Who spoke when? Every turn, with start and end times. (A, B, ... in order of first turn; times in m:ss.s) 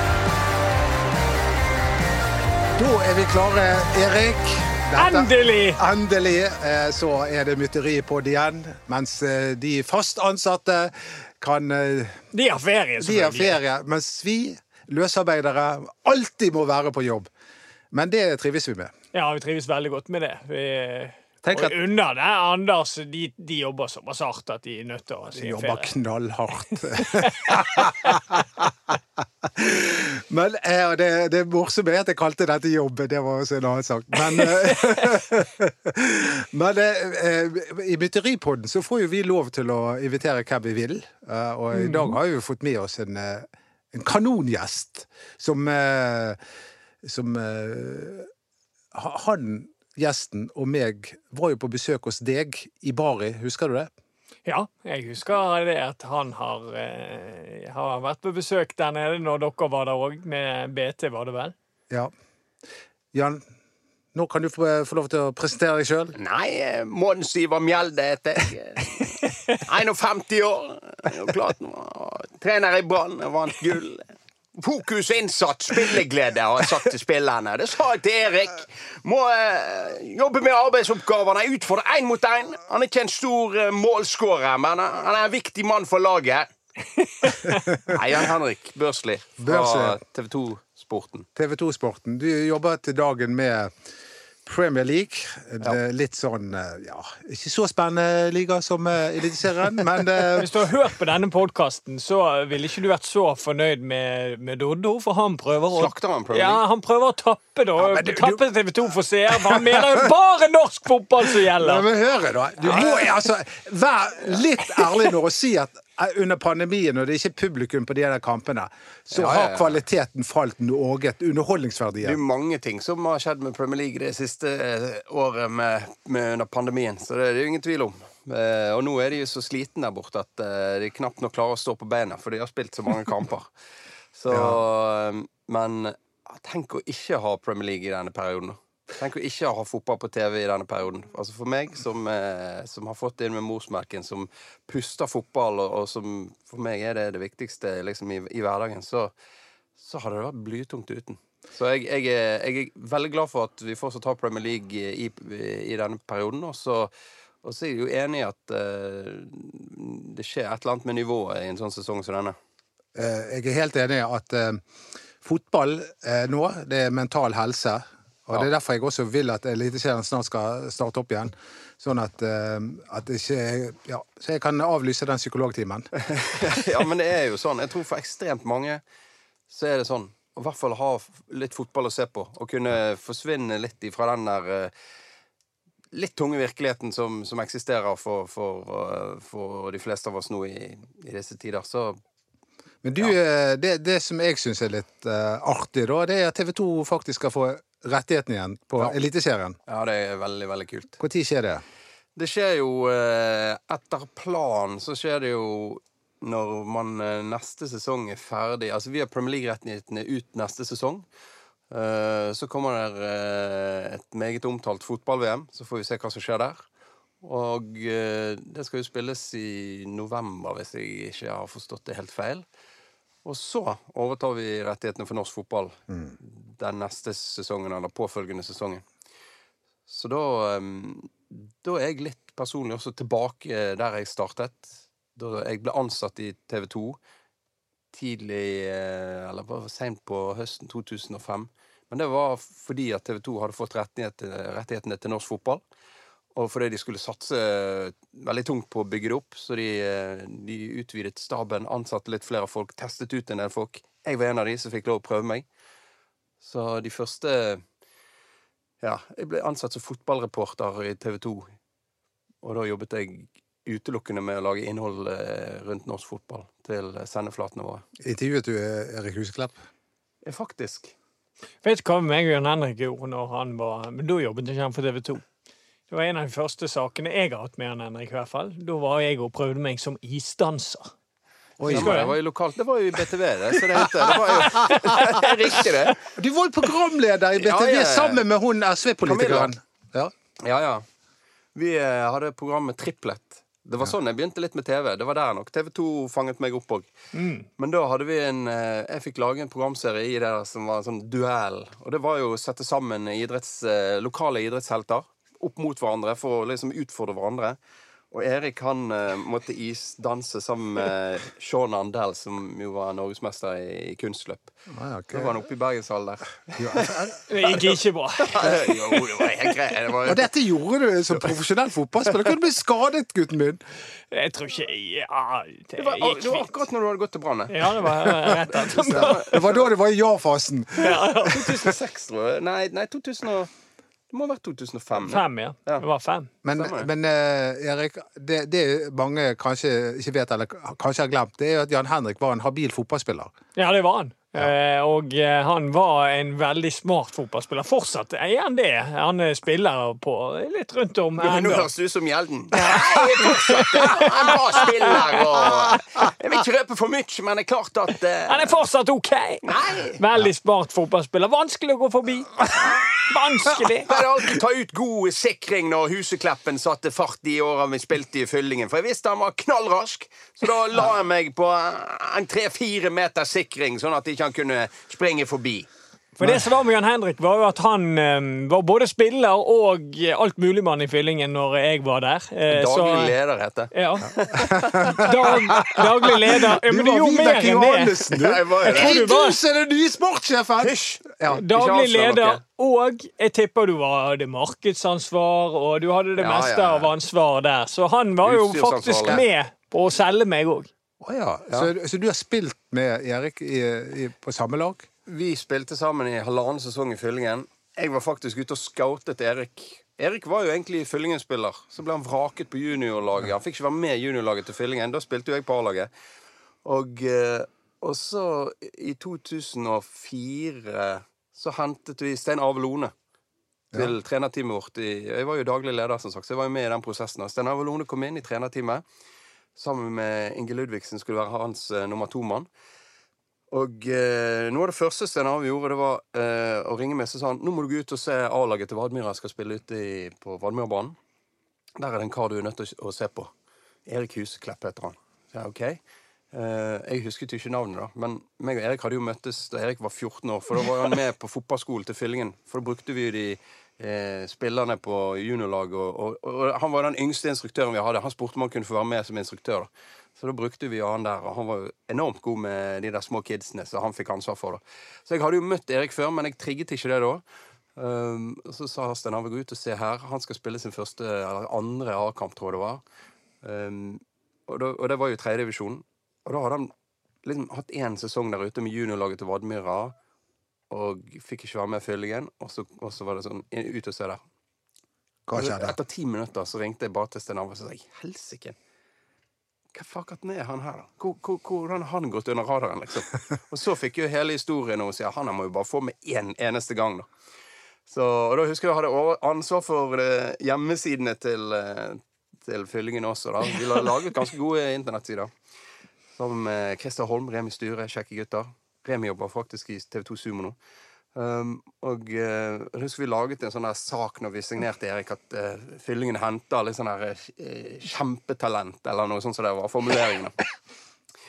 0:02.8-0:12.2 A
0:05.0-0:05.8 B
0:12.3-0:13.6 B
0:13.0-0:17.3 A
0:17.9-0:18.9 A
0:19.1-0:25.9 B
0:21.4-0:21.7 A
0:25.3-0:46.4 A
0:26.7-0:28.1 B
0:41.7-0:42.2 B
0:47.0-0:48.3 A
0:48.9-0:53.9 A
0:54.4-1:01.5 B
1:03.1-1:03.4 A
1:04.1-1:06.1 A
1:06.2-1:26.5 C
1:27.2-1:27.6 B
1:27.7-1:28.0 A
1:27.8-1:31.3 C
1:29.4-1:30.0 A
1:31.4-1:33.7 A
1:34.4-1:40.5 A
1:40.3-1:51.8 B
1:45.7-1:46.6 C
1:47.8-1:48.4 A
1:49.4-1:50.1 A
1:51.3-2:02.2 A
1:59.1-1:59.8 C
2:02.0-2:13.5 C
2:14.1-2:29.1 C
2:14.3-2:14.6 A
2:29.8-2:36.9 C
2:37.4-2:42.4 C
2:42.9-2:44.6 A
2:45.2-2:56.6 A
2:56.0-2:58.8 C
2:59.5-3:04.7 C
3:05.9-3:12.0 C
3:12.8-3:19.6 A
3:19.7-3:21.0 C
3:21.0-3:21.6 A
3:22.2-3:31.0 C
3:31.7-3:36.6 C
3:37.2-3:42.4 C
3:43.2-3:48.8 C
3:49.9-3:57.0 C
3:57.9-4:05.6 C
4:06.3-4:15.4 C
4:16.4-4:17.6 C
4:18.8-4:21.5 C
4:22.4-4:27.8 C
4:28.0-4:29.6 A
4:30.2-4:30.9 C
4:31.6-4:35.2 B
4:35.9-4:40.9 B
4:41.6-4:42.0 A
4:41.6-4:46.0 C
4:41.7-4:42.2 B
4:44.5-4:45.3 B
4:46.2-4:50.1 A
4:47.3-4:48.2 C
4:49.0-4:49.5 C
4:50.4-4:50.8 C
4:51.5-4:56.9 C
4:57.1-4:57.5 B
4:57.6-5:07.6 C
5:08.1-5:14.5 C
5:14.7-5:15.3 A
5:15.1-5:17.1 C
5:16.6-5:17.2 A
5:17.3-5:19.0 B
5:18.2-5:20.3 C
5:20.0-5:23.6 A
5:24.1-5:26.4 B
5:25.8-5:29.6 C
5:27.5-5:29.4 B
5:28.9-5:31.5 A
5:30.8-5:31.7 B
5:31.4-5:33.5 C
5:34.1-5:35.8 C
5:35.0-5:36.3 B
5:36.4-5:43.3 A
5:36.5-5:36.9 C
5:43.6-5:51.7 B
5:51.2-5:58.5 C
5:52.5-5:55.8 B
5:58.3-6:03.9 B
5:59.4-6:00.0 C
6:03.8-6:15.7 C
6:16.2-6:23.1 B
6:22.5-6:25.8 C
6:23.7-6:29.4 B
6:24.5-6:25.4 A
6:26.5-6:31.4 A
6:28.1-6:29.0 C
6:30.6-6:32.4 C
6:31.3-6:40.7 B
6:36.2-6:36.9 C
6:38.2-6:39.2 C
6:41.0-6:44.9 A
6:45.0-6:55.9 C
6:56.6-7:02.9 C
7:03.7-7:08.8 C
7:09.6-7:12.5 C
7:13.5-7:21.0 C
7:21.8-7:23.3 C
7:23.8-7:25.8 C
7:26.3-7:47.2 C
7:47.8-7:52.8 C
7:53.4-7:56.7 C
7:57.2-8:00.0 C
8:00.7-8:04.2 C
8:05.3-8:05.7 A
8:05.3-8:08.6 C
8:09.7-8:17.1 C
8:17.9-8:25.3 C
8:26.2-8:30.6 C
8:31.1-8:40.3 C